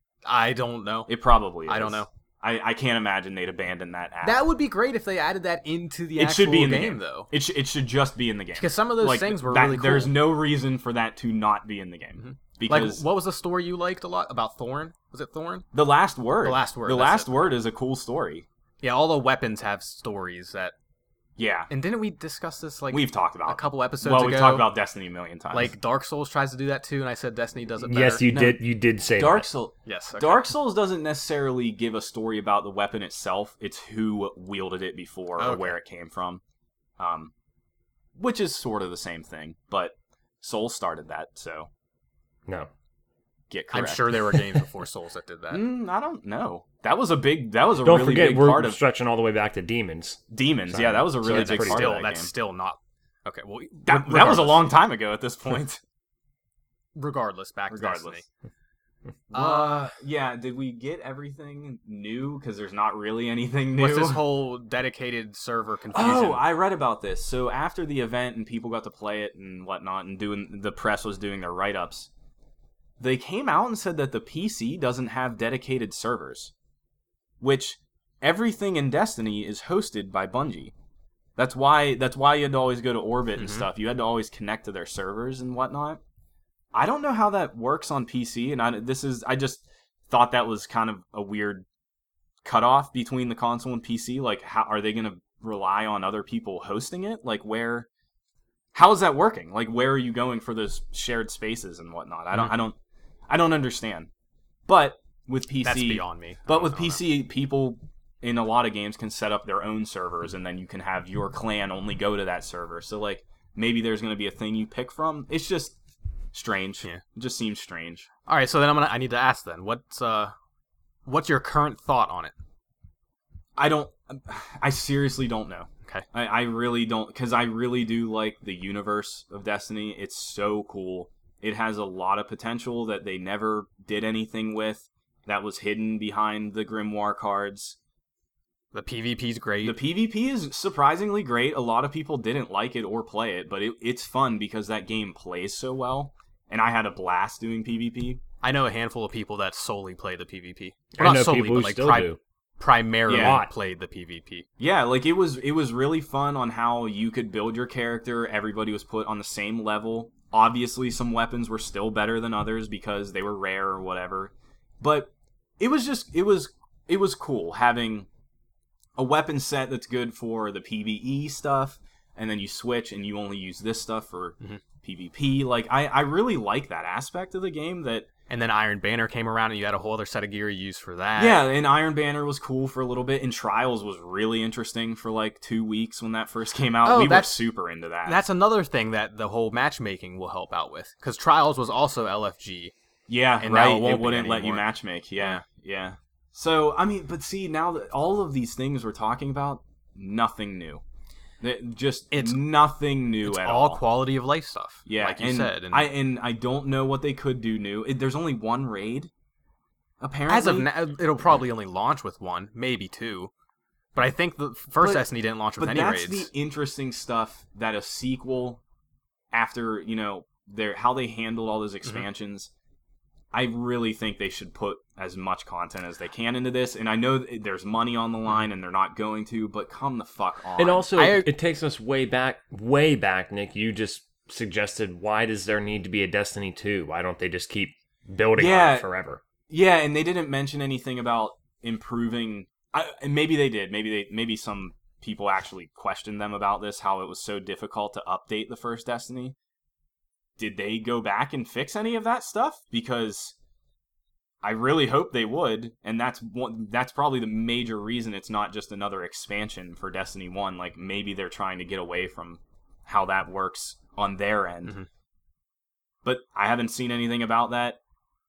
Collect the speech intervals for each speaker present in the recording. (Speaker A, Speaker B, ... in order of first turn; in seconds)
Speaker A: 0.3-1.1, 1.7-2.1, 4.2-7.3, 8.6-10.2, 12.2-15.7, 16.4-17.6, 18.8-20.8, 21.7-24.7, 25.5-28.3, 29.9-30.5, 35.4-35.8, 43.7-45.6, 51.2-54.7, 57.0-58.3, 59.3-59.9, 63.8-66.4, 83.4-83.7, 105.6-107.0, 118.3-120.3, 121.1-122.3, 138.7-139.8, 148.4-154.5, 178.3-181.4, 186.8-187.3, 188.1-192.7, 193.4-194.6, 195.2-195.4, 202.1-202.4, 203.2-205.9, 210.3-213.3, 214.0-216.3, 230.9-231.3
Speaker B: 1.1-4.4, 6.2-13.0, 15.7-18.5, 21.4-21.7, 22.9-25.7, 28.3-28.6, 29.2-36.4, 37.0-37.3, 38.2-41.7, 43.5-44.2, 45.5-48.8, 50.3-52.3, 53.9-55.8, 57.7-58.2, 59.3-64.2, 65.9-72.1, 73.0-76.5, 77.4-80.7, 81.4-86.0, 86.7-91.7, 92.4-97.9, 98.7-102.8, 103.3-104.1, 104.7-115.8, 116.3-118.1, 123.6-137.8, 139.6-148.2, 153.1-153.4, 154.6-168.1, 169.0-178.1, 181.2-188.2, 193.1-200.8, 201.4-203.8, 204.9-209.1, 210.0-210.7, 215.6-218.6, 219.3-222.5, 223.3-230.9, 238.4-238.9, 239.5-249.3, 250.4-253.3, 254.4-264.8, 266.0-267.8
Speaker C: 27.8-29.5, 47.8-51.9, 151.0-152.2, 153.1-153.5, 230.6-239.2